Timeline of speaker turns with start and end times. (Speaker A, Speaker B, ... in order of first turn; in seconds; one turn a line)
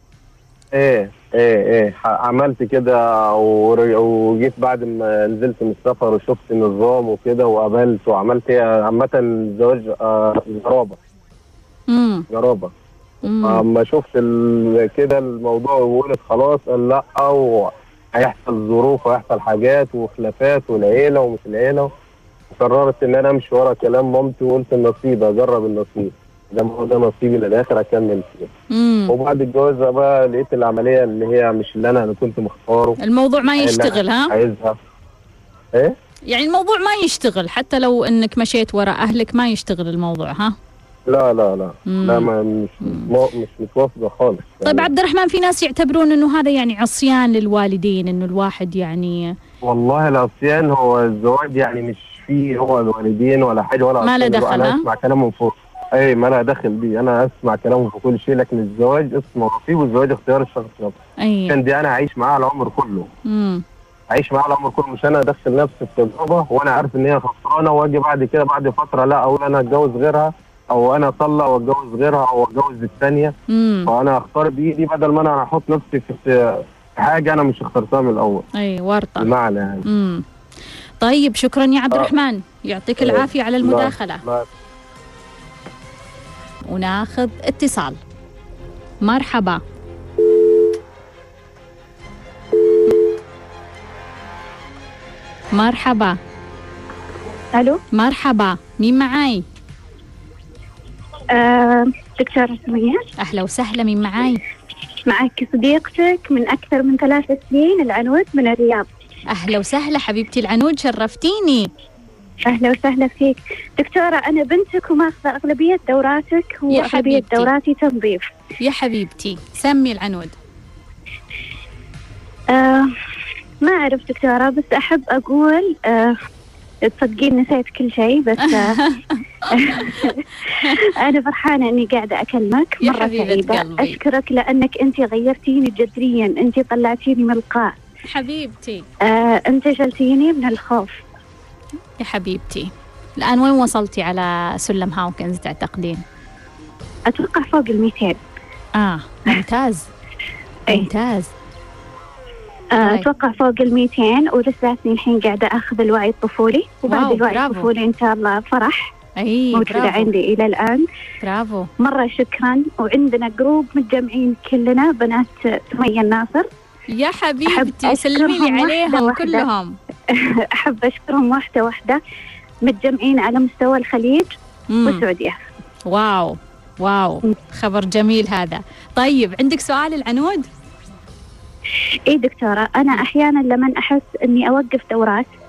Speaker A: 0.7-11.0
Speaker B: 11.9-12.3
Speaker A: 12.3-12.7
Speaker B: 13.2-13.6
Speaker A: 13.4-21.9
Speaker A: 22.5-28.5
Speaker B: 28.7-29.1
Speaker A: 29.1-33.0
Speaker B: 33.0-34.3
Speaker A: 33.6-34.8
Speaker B: 36.3-40.6
Speaker A: 41.1-44.9
Speaker B: 41.9-42.3
Speaker B: 42.8-43.1
Speaker B: 44.6-49.4
Speaker A: 49.6-61.0
Speaker B: 54.0-54.8
Speaker B: 61.2-61.5
Speaker A: 61.5-63.1
Speaker B: 63.3-63.6
Speaker A: 64.1-73.3
Speaker B: 73.5-73.9
Speaker A: 73.9-78.4
Speaker B: 78.6-79.3
Speaker A: 79.2-79.8
Speaker B: 79.8-80.2
Speaker B: 81.0-84.2
Speaker A: 83.0-84.5
Speaker B: 86.7-88.0
Speaker B: 89.0-89.6
Speaker B: 95.5-96.2
Speaker C: 97.5-97.8
Speaker B: 97.9-99.4
Speaker C: 101.3-103.1
Speaker B: 103.2-104.4
Speaker C: 105.0-108.9
Speaker B: 109.3-111.7
Speaker C: 112.4-118.3
Speaker B: 116.7-117.5
Speaker B: 118.6-120.3
Speaker C: 122.5-122.9
Speaker C: 123.6-126.2
Speaker C: 126.8-128.8
Speaker B: 128.4-130.8
Speaker C: 129.5-137.8
Speaker B: 132.8-134.0
Speaker B: 138.1-138.9
Speaker C: 139.0-141.0
Speaker B: 142.0-146.0
Speaker C: 147.1-148.2
Speaker B: 148.8-149.9
Speaker B: 150.7-151.3
Speaker C: 152.8-158.9
Speaker B: 152.8-153.1
Speaker B: 156.9-157.7
Speaker B: 159.2-160.1
Speaker C: 159.5-160.8
Speaker B: 161.2-161.7
Speaker C: 161.8-166.5
Speaker B: 166.9-169.8
Speaker C: 167.5-169.5
Speaker C: 170.1-172.0
Speaker C: 172.7-174.3
Speaker B: 174.7-175.0
Speaker C: 174.8-175.4
Speaker B: 175.9-180.5
Speaker C: 182.1-185.3